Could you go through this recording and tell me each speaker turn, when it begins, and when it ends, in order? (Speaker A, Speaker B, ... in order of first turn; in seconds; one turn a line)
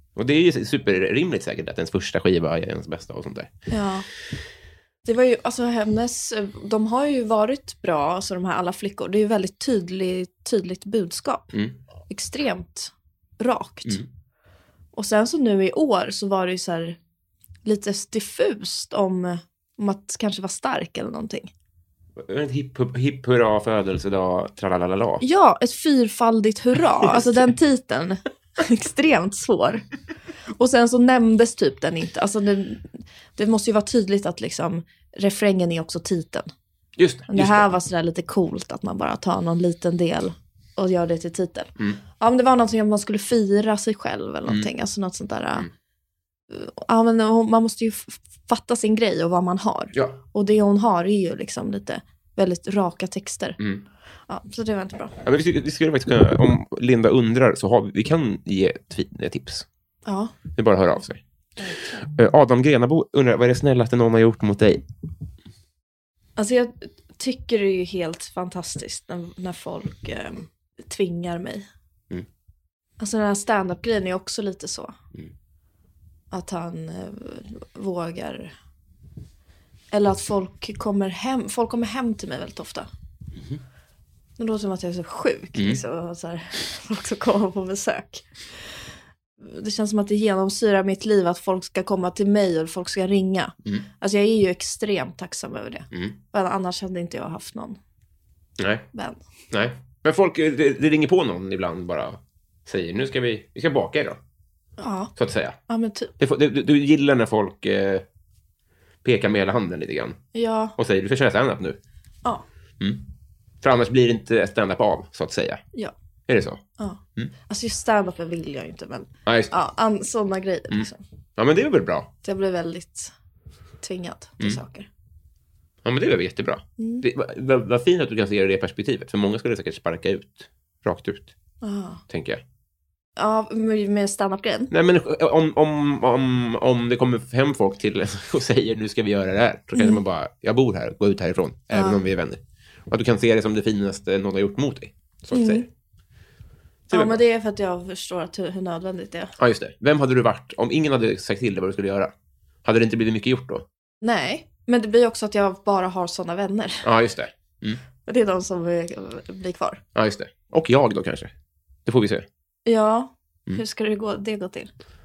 Speaker A: 0.2-3.5
Speaker B: 3.7-4.1
Speaker B: 5.0-11.5
Speaker B: 12.1-14.0
Speaker B: 14.9-17.0
Speaker B: 17.6-21.5
Speaker A: 22.2-25.2
Speaker B: 25.2-29.8
Speaker A: 27.0-27.4
Speaker B: 30.6-36.5
Speaker A: 37.0-37.7
Speaker B: 37.3-45.7
Speaker B: 46.5-53.6
Speaker A: 53.6-53.9
Speaker B: 54.3-55.1
Speaker A: 55.2-59.6
Speaker B: 60.1-60.3
Speaker A: 60.6-61.2
Speaker B: 61.6-62.0
Speaker A: 62.0-64.8
Speaker B: 66.4-71.7
Speaker B: 73.0-75.0
Speaker B: 76.3-78.5
Speaker B: 79.9-82.9
Speaker B: 84.4-88.8
Speaker B: 89.4-97.8
Speaker A: 98.6-98.9
Speaker B: 98.9-99.2
Speaker A: 99.5-104.2
Speaker B: 104.8-105.1
Speaker A: 105.2-105.6
Speaker B: 105.7-106.1
Speaker A: 106.2-108.0
Speaker A: 109.0-110.2
Speaker B: 110.3-110.7
Speaker A: 110.8-111.8
Speaker A: 112.8-113.1
Speaker A: 113.6-115.6
Speaker A: 116.3-116.6
Speaker B: 116.8-121.0
Speaker A: 119.3-119.5
Speaker A: 120.7-122.1
Speaker B: 122.2-123.1
Speaker B: 123.8-124.9
Speaker A: 125.8-131.3
Speaker B: 126.8-127.0
Speaker B: 131.6-132.0
Speaker A: 132.1-132.4
Speaker B: 133.2-134.7
Speaker A: 134.7-145.7
Speaker B: 141.7-142.0
Speaker B: 145.3-145.7
Speaker A: 146.9-147.2
Speaker B: 146.9-149.3
Speaker A: 149.4-152.1
Speaker A: 152.7-153.7
Speaker B: 154.0-156.9
Speaker A: 156.8-157.8
Speaker B: 158.1-159.8
Speaker A: 159.9-161.3
Speaker A: 161.9-162.3
Speaker B: 162.7-164.7